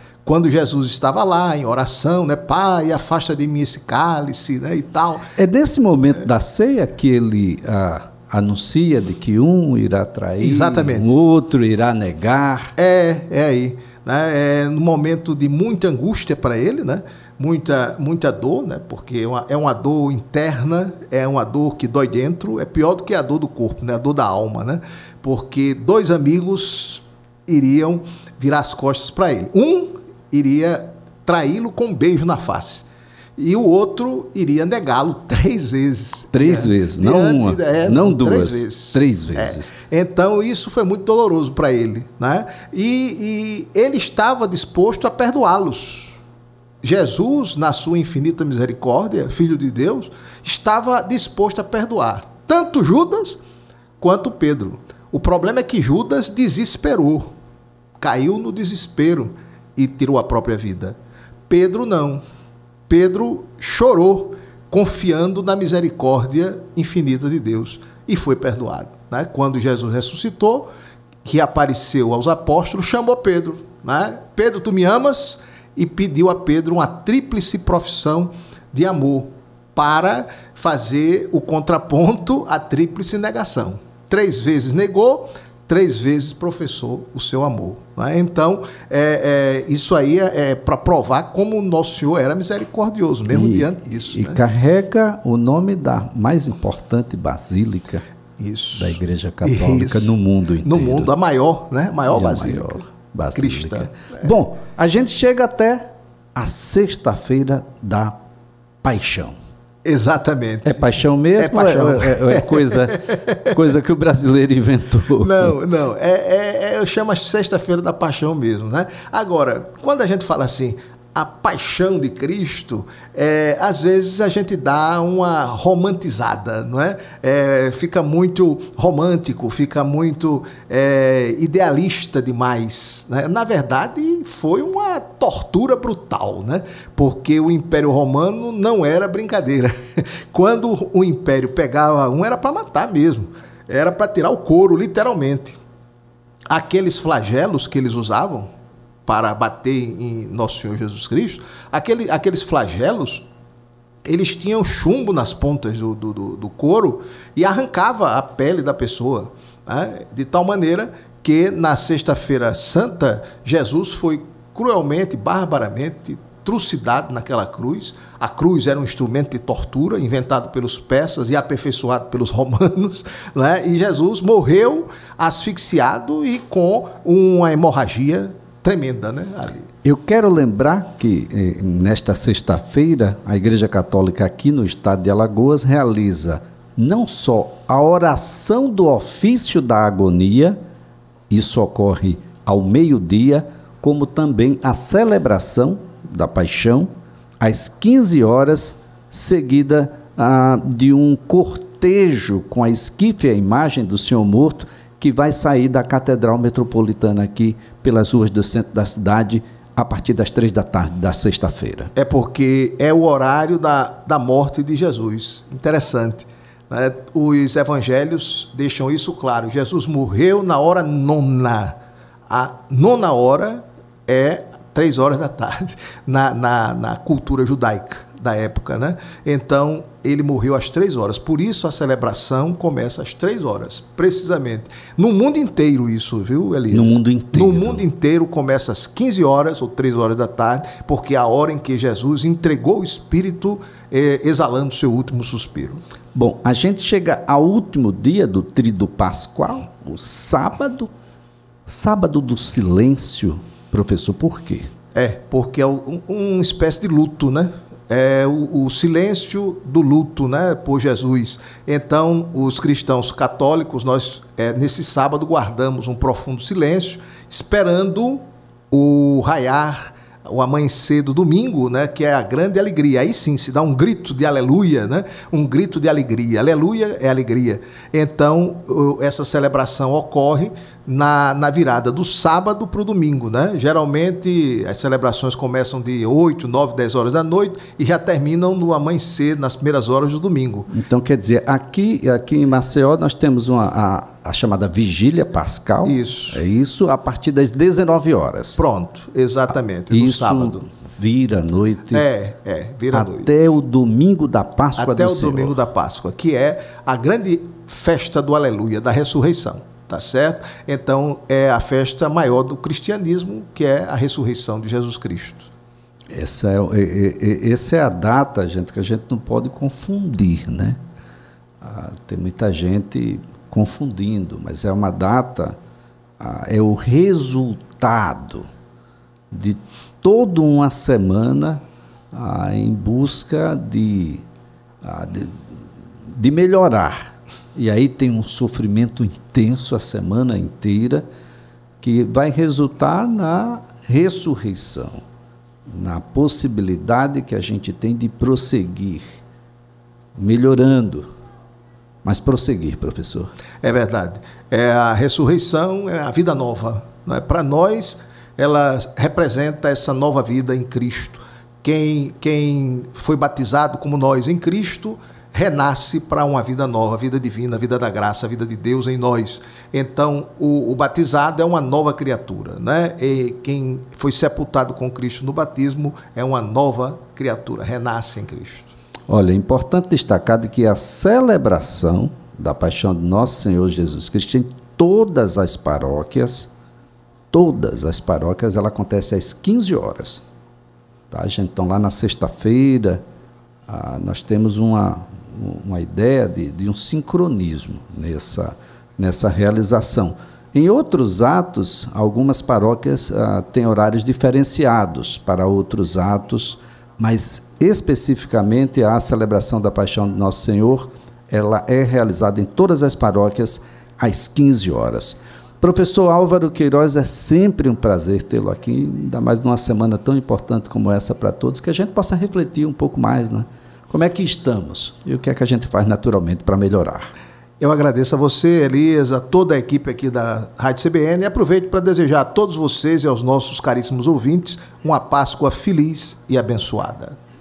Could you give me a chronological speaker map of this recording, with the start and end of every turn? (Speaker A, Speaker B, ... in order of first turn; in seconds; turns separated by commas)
Speaker A: 0.2-5.3, Speaker B: 5.4-12.7, Speaker A: 10.4-11.2, Speaker A: 12.8-32.9, Speaker A: 33.4-46.1, Speaker B: 36.3-39.7, Speaker A: 46.8-53.4, Speaker A: 54.0-57.3, Speaker A: 58.0-61.0, Speaker A: 61.5-62.2, Speaker A: 62.9-70.7, Speaker A: 71.2-94.4, Speaker B: 93.3-98.0, Speaker A: 98.4-102.8, Speaker B: 98.8-101.1, Speaker B: 102.1-108.2, Speaker A: 103.3-104.3, Speaker B: 108.8-109.4, Speaker A: 109.8-113.5, Speaker B: 110.7-115.5, Speaker A: 115.2-145.6, Speaker A: 146.5-148.5, Speaker A: 149.1-153.3, Speaker A: 154.1-179.7, Speaker B: 179.8-190.6, Speaker B: 191.3-211.9, Speaker A: 212.0-221.8, Speaker A: 222.3-245.8, Speaker B: 236.7-237.8, Speaker B: 246.2-250.9, Speaker B: 251.7-254.7, Speaker A: 254.9-290.7, Speaker B: 290.7-298.6, Speaker A: 295.9-296.4, Speaker A: 298.6-300.6, Speaker B: 299.9-302.1, Speaker A: 301.9-303.5, Speaker B: 302.9-305.6, Speaker A: 304.8-315.5, Speaker B: 316.1-320.8, Speaker B: 321.6-325.6, Speaker B: 326.2-328.5, Speaker B: 329.3-331.6, Speaker B: 332.1-334.2, Speaker B: 334.8-341.0, Speaker B: 341.8-345.0, Speaker B: 345.7-349.2, Speaker B: 350.2-351.1, Speaker B: 352.0-353.3, Speaker A: 353.6-378.7, Speaker B: 379.1-386.5, Speaker B: 387.3-390.2, Speaker B: 391.1-393.0, Speaker B: 393.7-427.1, Speaker A: 427.6-437.2